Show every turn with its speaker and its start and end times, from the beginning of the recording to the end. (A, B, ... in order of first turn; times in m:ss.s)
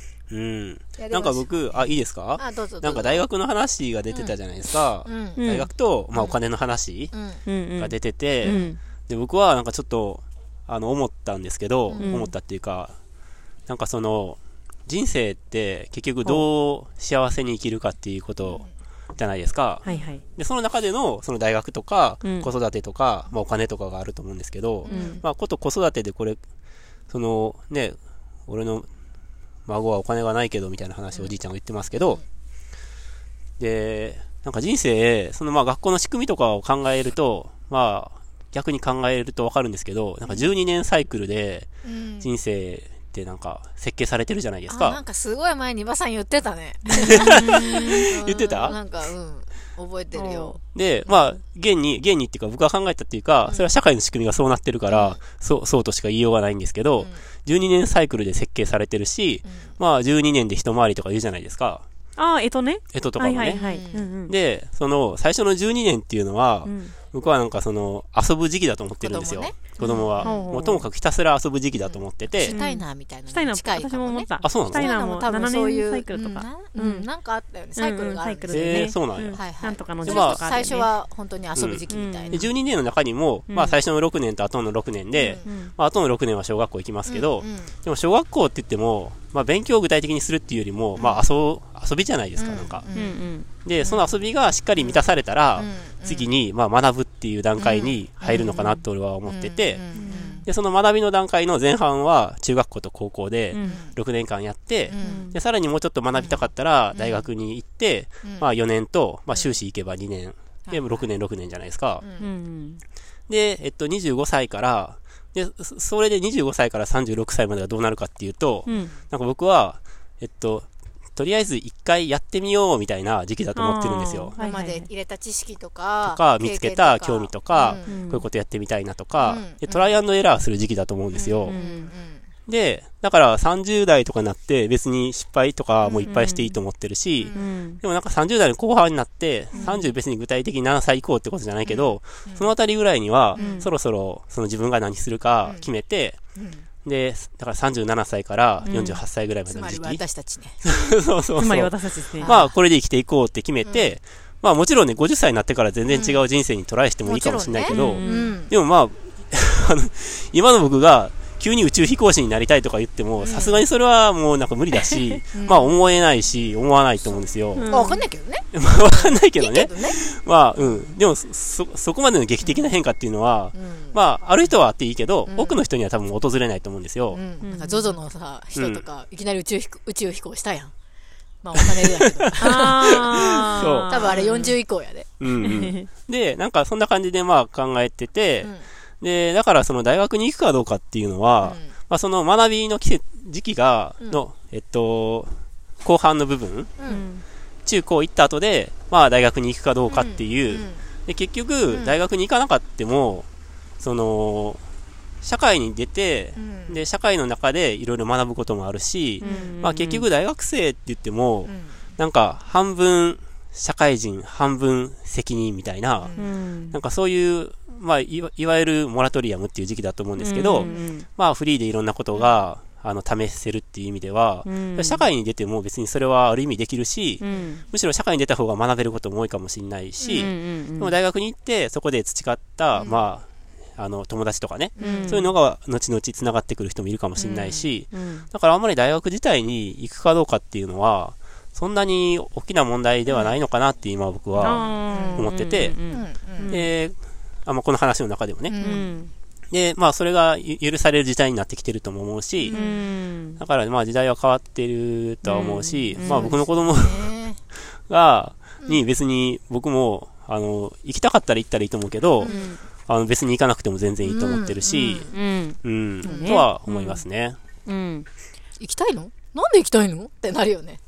0:00.3-0:07.1 A
0:01.0-0:03.2 B
0:04.1-0:04.4 B
0:05.0-0:05.5 B
0:05.4-0:05.7 C
0:07.1-0:07.4 B
0:07.4-0:08.8 C
0:07.8-0:13.0 A
0:08.5-0:08.7 B
0:11.9-0:12.2 B
0:12.0-0:12.3 C
0:13.7-0:18.6 A
0:18.4-0:18.7 B
0:19.2-0:19.8 A
0:19.8-0:20.2 C
0:20.4-0:26.4 A
0:22.2-0:22.5 C
0:24.9-0:25.2 B
0:24.9-0:25.2 C
0:27.1-0:28.9 A
0:29.7-0:32.2 A
0:33.6-0:41.7 A
0:41.8-0:42.3 B
0:42.2-0:45.0 A
0:44.7-0:50.6 B
0:47.0-0:47.9 C
0:47.1-0:48.8 A
0:50.1-0:50.6 C
0:50.7-1:01.8 A
0:54.9-0:55.2 B
0:57.0-0:57.3 B
0:59.4-0:59.8 B
1:02.2-1:04.3 C
1:02.9-1:03.6 A
1:03.5-1:04.1 B
1:04.3-1:12.6 A
1:06.6-1:07.0 C
1:09.0-1:10.4 B
1:09.8-1:10.9 C
1:11.8-1:22.5 B
1:12.4-1:17.1 C
1:14.4-1:14.9 A
1:17.8-1:20.9 C
1:18.5-1:19.4 A
1:20.0-1:20.4 A
1:21.6-1:32.9 A
1:21.9-1:22.5 C
1:23.5-1:23.8 C
1:25.2-1:25.6 B
1:25.4-1:25.7 C
1:27.1-1:27.8 B
1:31.0-1:31.2 B
1:32.4-1:33.2 B
1:32.9-1:33.5 C
1:33.6-1:39.8 A
1:33.8-1:34.2 B
1:34.8-1:36.4 B
1:37.6-1:40.5 B
1:40.0-1:40.4 C
1:40.5-1:52.0 A
1:43.5-1:43.8 C
1:43.6-1:44.0 B
1:44.9-1:45.3 B
1:45.0-1:45.4 C
1:46.1-1:47.3 B
1:48.2-1:48.5 B
1:49.3-1:49.6 B
1:50.7-1:51.1 B
1:52.0-1:52.3 B
1:52.2-1:52.8 C
1:53.3-2:04.4 A
1:58.7-1:58.9 C
1:58.7-1:58.9 B
2:03.6-2:04.9 C
2:04.4-2:08.1 B
2:06.0-2:11.6 A
2:07.6-2:08.3 C
2:09.2-2:10.0 B
2:11.1-2:12.3 B
2:11.5-2:11.9 C
2:12.5-2:26.2 A
2:15.8-2:16.1 B
2:16.0-2:16.6 C
2:17.2-2:17.5 B
2:17.3-2:17.8 C
2:19.5-2:19.8 B
2:19.6-2:19.9 C
2:21.7-2:22.5 B
2:23.4-2:23.7 B
2:23.4-2:23.7 C
2:26.4-2:26.7 B
2:26.8-2:30.0 A
2:28.6-2:29.0 C
2:29.5-2:30.7 B
2:30.6-2:47.7 A
2:31.4-2:32.3 C
2:32.2-2:32.6 B
2:33.6-2:34.0 B
2:35.9-2:36.2 B
2:37.1-2:38.5 B
2:37.7-2:38.4 C
2:43.2-2:43.6 B
2:44.8-2:45.2 C
2:45.3-2:45.8 B
2:47.6-2:48.0 C
2:47.7-2:50.0 B
2:48.5-2:57.2 A
2:50.6-2:50.9 B
2:52.4-2:52.7 B
2:53.5-2:54.0 B
2:55.3-2:55.6 B
2:57.1-3:00.7 B
2:57.4-2:58.0 C
2:58.6-2:58.8 A
3:01.4-3:05.1 B
3:01.8-3:04.0 A
3:02.4-3:04.6 C
3:05.2-3:15.3 A
3:05.4-3:05.9 C
3:08.4-3:08.7 B
3:11.4-3:11.8 B
3:15.8-3:16.8 A
3:16.8-3:17.0 B
3:16.9-3:17.2 C
3:17.6-3:23.3 A
3:19.9-3:20.9 B
3:21.7-3:22.0 B
3:23.8-3:24.6 A
3:25.2-3:36.2 A
3:26.4-3:26.8 B
3:29.2-3:30.1 C
3:29.2-3:29.6 B
3:31.5-3:31.8 B
3:36.0-3:36.4 B
3:36.2-3:36.8 C
3:36.7-4:05.8 A
3:40.2-3:41.1 C
3:40.6-3:40.9 B
3:44.4-3:45.0 C
3:47.2-3:47.7 C
3:50.0-3:50.3 B
3:50.1-3:51.0 C
3:52.8-3:53.0 B
3:54.8-3:55.2 B
3:54.8-3:55.4 C
3:57.2-3:57.7 B
3:57.9-3:58.3 C
4:03.1-4:03.4 B
4:04.4-4:06.7 C
4:04.6-4:05.3 B
4:05.8-4:06.6 B
4:06.5-4:08.6 A
4:08.5-4:09.0 B
4:08.6-4:09.1 C
4:09.5-4:12.6 A
4:12.4-4:13.4 C
4:12.5-4:12.9 B
4:13.4-4:17.1 A
4:15.2-4:16.3 C
4:16.0-4:17.4 B
4:17.7-4:22.3 A
4:22.2-4:22.5 B
4:22.2-4:22.6 C
4:22.9-4:25.1 A
4:24.0-4:25.2 B
4:25.1-4:27.1 C
4:25.6-4:27.4 A
4:26.0-4:26.4 B
4:27.7-4:28.1 C
4:28.6-4:30.8 B